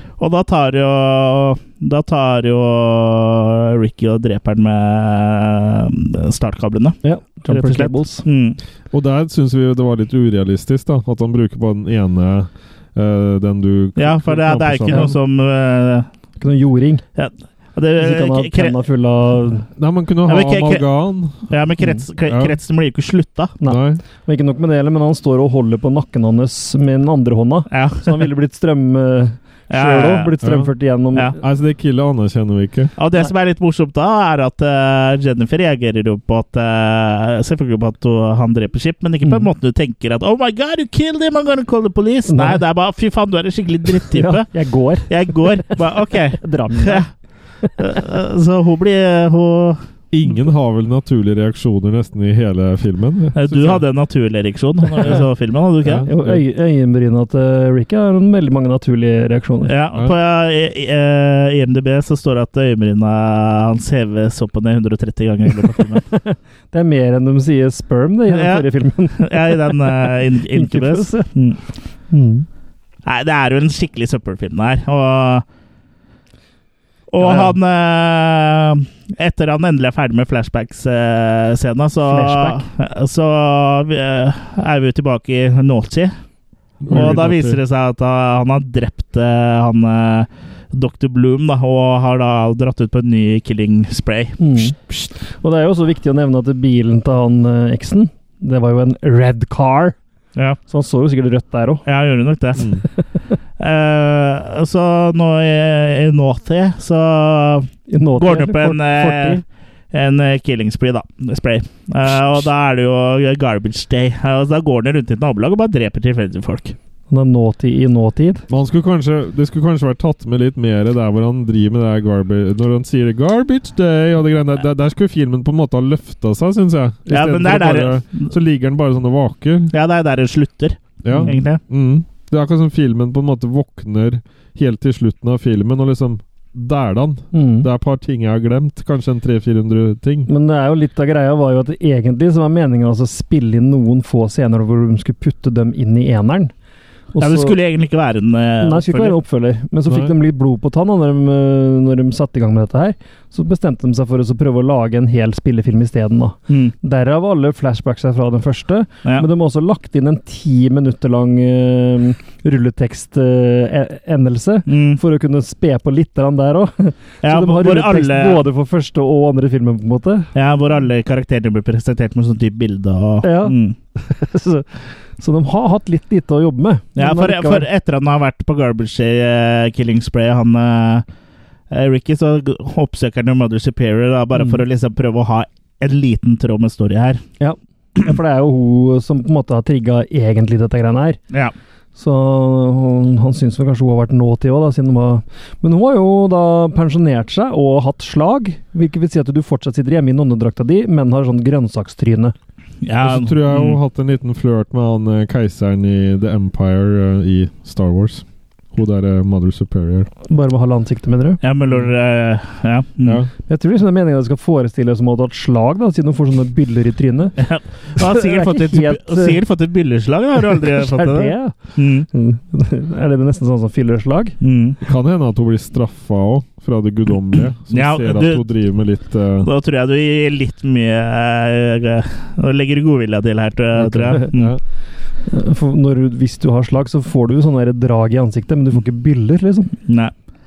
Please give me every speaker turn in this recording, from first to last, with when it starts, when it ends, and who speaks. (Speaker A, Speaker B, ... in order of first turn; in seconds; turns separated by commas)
Speaker A: 0.2-8.6, Speaker B: 7.0-8.2, Speaker C: 8.9-15.1, Speaker A: 14.0-16.1, Speaker B: 16.4-17.0, Speaker A: 17.1-18.8, Speaker B: 18.0-19.7, Speaker C: 19.8-21.5, Speaker A: 20.3-20.9, Speaker A: 21.5-23.5, Speaker C: 22.3-22.6, Speaker B: 23.6-31.4, Speaker C: 23.6-24.0, Speaker A: 27.7-28.3, Speaker A: 29.7-30.3, Speaker C: 30.4-30.7, Speaker C: 31.4-32.9, Speaker A: 33.0-44.5, Speaker B: 42.3-42.6, Speaker B: 44.1-45.7, Speaker A: 45.1-47.1, Speaker B: 46.4-47.1, Speaker A: 47.8-49.8, Speaker C: 50.1-53.9, Speaker A: 53.4-56.1, Speaker C: 55.8-56.4, Speaker B: 56.1-59.7, Speaker A: 59.7-66.0, Speaker B: 66.1-71.3, Speaker A: 68.3-71.6, Speaker B: 72.1-72.5, Speaker A: 73.1-75.5, Speaker A: 77.1-86.1, Speaker B: 77.2-77.5, Speaker B: 82.0-82.6, Speaker C: 86.8-87.6, Speaker A: 86.9-94.7, Speaker B: 94.4-100.0, Speaker B: 100.7-101.8, Speaker A: 101.9-102.7, Speaker C: 102.6-102.8, Speaker A: 103.6-116.8, Speaker B: 107.9-109.4, Speaker B: 117.1-118.5, Speaker C: 118.5-129.7, Speaker A: 127.1-128.3, Speaker A: 129.7-131.6, Speaker C: 131.0-140.3, Speaker B: 131.1-131.4, Speaker B: 137.3-137.7, Speaker B: 140.3-146.5, Speaker B: 147.1-147.5, Speaker A: 147.2-149.2, Speaker B: 148.6-170.3, Speaker C: 149.9-150.2, Speaker A: 156.5-156.7, Speaker A: 164.7-165.0, Speaker A: 167.2-168.4, Speaker A: 170.3-173.8, Speaker B: 173.2-177.7, Speaker A: 177.0-181.1, Speaker A: 181.7-187.2, Speaker B: 187.4-191.2, Speaker B: 192.0-202.3, Speaker A: 202.8-203.8, Speaker C: 203.0-210.1, Speaker B: 210.3-211.4, Speaker A: 211.4-213.2, Speaker C: 213.0-213.3, Speaker B: 213.5-217.4, Speaker A: 217.4-222.1, Speaker B: 218.0-219.4, Speaker B: 220.7-221.6, Speaker B: 222.1-224.4, Speaker A: 224.4-224.8, Speaker C: 224.8-229.5, Speaker A: 227.7-228.4, Speaker A: 229.4-234.5, Speaker C: 233.9-234.6, Speaker B: 234.0-234.3, Speaker B: 235.3-239.7, Speaker A: 239.9-240.1